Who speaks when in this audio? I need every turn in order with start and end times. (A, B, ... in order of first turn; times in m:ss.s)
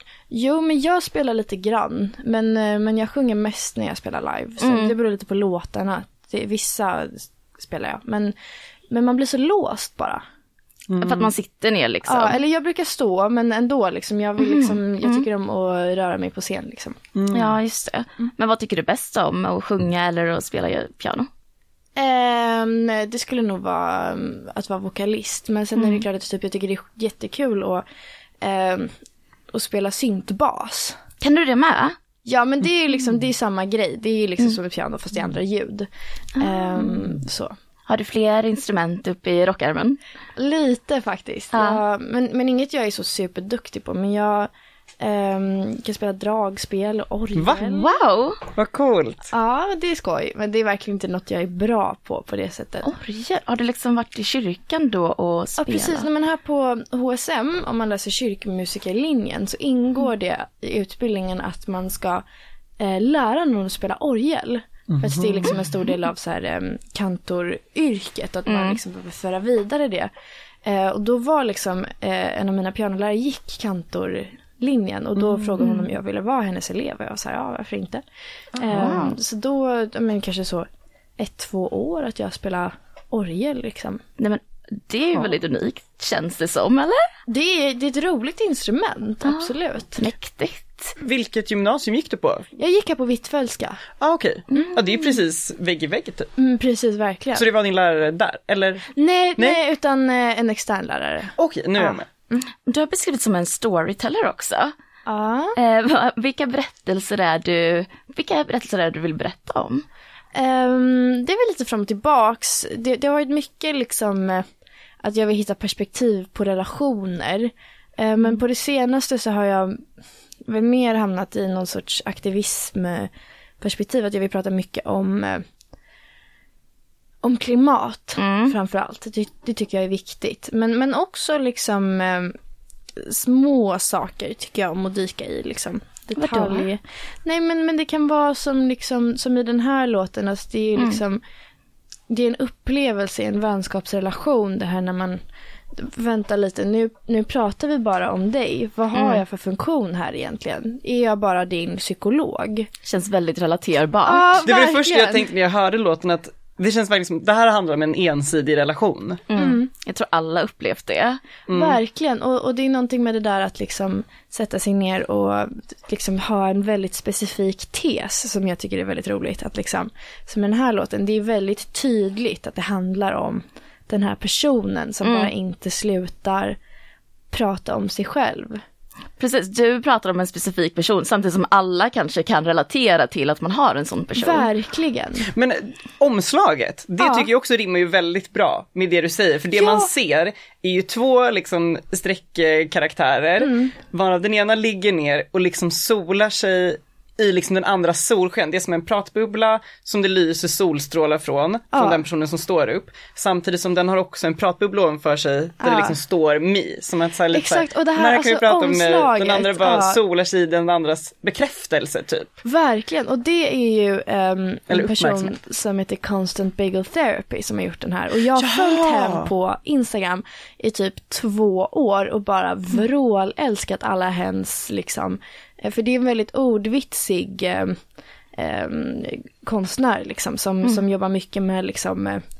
0:00.3-0:08.4 A
0:04.6-0:05.0 B
0:08.9-0:10.2 A
0:10.9-0:11.3 C
0:11.0-0:12.4 B
0:12.1-0:17.0 A
0:14.4-0:15.3 B
0:17.1-0:17.6 C
0:17.3-0:21.3 B
0:22.0-0:27.8 A
0:25.8-0:26.0 B
0:28.4-0:28.9 A
0:29.5-0:31.0 A
0:31.2-0:32.0 B
0:32.2-0:37.5 A
0:36.4-0:37.0 B
0:37.9-0:40.0 B
0:40.4-0:44.5 A
0:41.5-0:41.8 B
0:45.0-0:48.0 A
0:47.4-0:47.7 C
0:47.8-0:48.4 B
0:48.5-0:49.3 C
0:49.3-0:52.9 A
0:52.8-0:56.1 B
0:55.6-1:02.2 A
1:02.8-1:10.1 A
1:04.9-1:05.6 C
1:08.5-1:08.8 B
1:10.6-1:18.0 A
1:18.6-1:20.6 A
1:18.6-1:19.0 C
1:18.7-1:19.2 B
1:21.2-1:24.0 A
1:24.2-1:27.0 B
1:27.3-1:30.1 A
1:29.2-1:31.0 B
1:31.0-1:32.5 C
1:32.6-1:33.8 A
1:34.0-1:36.3 C
1:36.4-1:37.5 A
1:37.3-1:39.6 C
1:39.0-1:42.0 A
1:41.4-1:42.1 C
1:42.6-1:44.7 B
1:45.0-1:45.6 A
1:45.6-1:49.8 B
1:50.3-1:54.4 A
1:55.0-1:59.8 A
2:00.5-2:05.4 A
2:07.2-2:12.3 A
2:08.2-2:08.5 B
2:13.0-2:21.2 A
2:16.2-2:16.7 B
2:22.1-2:25.2 A
2:25.8-2:32.7 A
2:28.9-2:29.2 B
2:32.8-2:34.4 B
2:34.0-2:35.3 A
2:34.4-2:39.2 C
2:39.3-2:41.2 B
2:39.4-2:39.7 A
2:41.5-2:41.8 C
2:41.5-2:56.6 A
2:55.0-2:55.3 B
2:57.3-2:58.6 A
2:59.2-3:04.5 B
3:04.2-3:05.3 A
3:05.3-3:32.3 C
3:07.0-3:07.3 A
3:09.5-3:09.9 A
3:13.4-3:13.8 A
3:21.7-3:22.0 A
3:25.6-3:26.0 A
3:27.3-3:30.0 A
3:32.4-3:47.8 A
3:34.7-3:35.3 C
3:38.4-3:39.3 C
3:48.4-3:52.2 A